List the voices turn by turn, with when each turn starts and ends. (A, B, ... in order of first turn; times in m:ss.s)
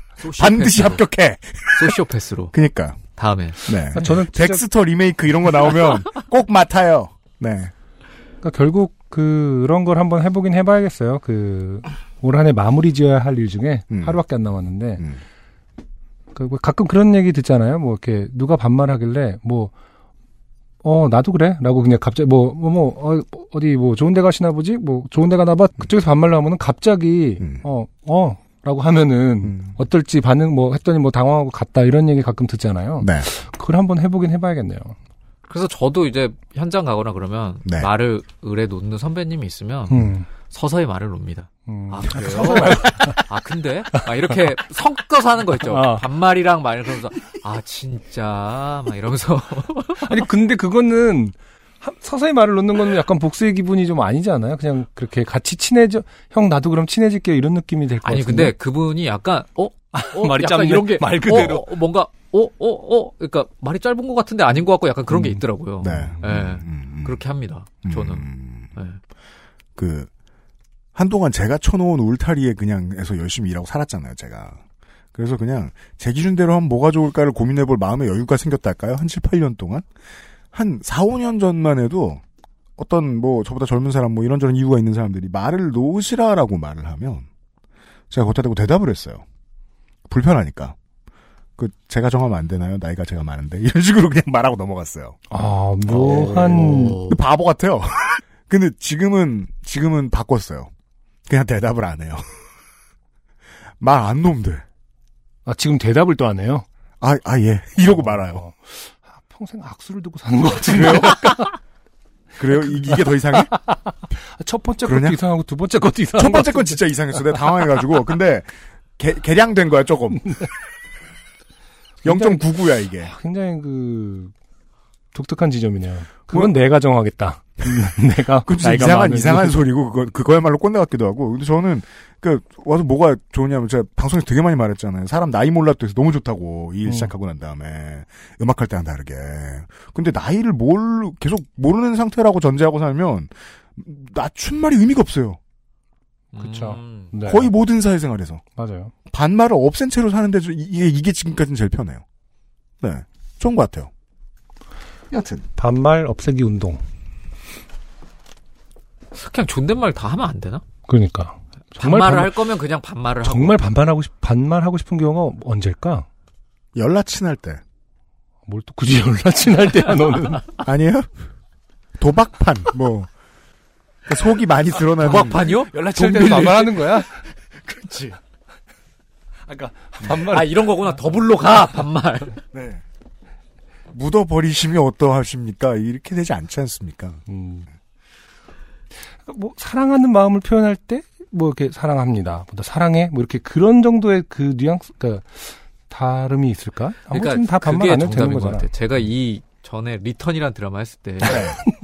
0:00.2-0:01.0 A
0:00.4-0:02.0 B
0:01.7-0:02.5 A
0:02.5-0:03.0 B
0:03.2-0:03.7 A
0:03.6-0:07.7 B
0:03.9-0:04.6 C
0:08.4-0:15.0 C
0:13.9-0:14.2 B
0:16.4-0:19.7 C
0:20.8-0:35.0 C
0:29.4-0:29.8 B
0:33.0-0:33.3 B
0:35.5-0:50.2 A
0:39.9-0:40.3 C
0:41.7-0:43.2 C
0:44.0-0:44.3 C
0:45.6-0:46.0 C
0:50.0-0:58.5 C
0:58.0-1:09.0 A
0:59.9-1:01.7 C
1:05.8-1:07.2 B
1:07.8-1:08.7 B
1:09.8-1:10.1 B
1:11.0-1:14.6 B
1:15.2-1:19.9 B
1:20.5-1:22.2 B
1:22.8-1:27.3 B
1:28.1-1:29.2 B
1:30.1-1:30.8 B
1:31.6-1:35.2 B
1:35.3-1:37.0 C
1:35.9-1:37.2 A
1:36.0-1:40.7 B
1:41.3-1:42.3 B
1:43.8-1:44.6 B
1:45.5-1:46.7 C
1:47.0-1:48.4 B
1:47.9-1:51.5 C
1:50.7-1:51.5 B
1:52.4-1:53.6 B
1:52.8-1:57.3 C
1:54.8-1:55.2 B
1:56.2-2:00.5 B
2:02.0-2:02.4 C
2:02.0-2:03.1 B
2:03.0-2:04.3 C
2:05.1-2:09.6 C
2:08.4-2:25.4 B
2:16.9-2:17.1 C
2:26.3-2:27.1 A
2:26.4-2:27.5 C
2:27.2-2:28.4 B
2:28.6-2:28.9 C
2:29.1-2:32.0 B
2:32.8-2:33.9 B
2:35.1-2:35.4 B
2:35.6-2:36.8 C
2:39.2-2:40.6 A
2:40.9-2:42.4 C
2:41.8-2:43.6 A
2:43.2-2:46.1 C
2:46.8-2:47.6 B
2:48.5-2:50.4 C
2:50.6-2:51.1 B
2:52.0-2:53.1 B
2:54.1-2:55.6 B
2:55.0-2:57.0 A
2:55.4-2:57.1 C
2:57.6-2:58.2 B
2:59.5-3:00.9 C
3:00.3-3:02.4 A
3:02.5-3:02.8 B
3:03.9-3:07.2 B
3:07.3-3:07.7 C
3:09.3-3:18.7 C
3:17.1-3:21.5 A
3:21.2-3:21.6 B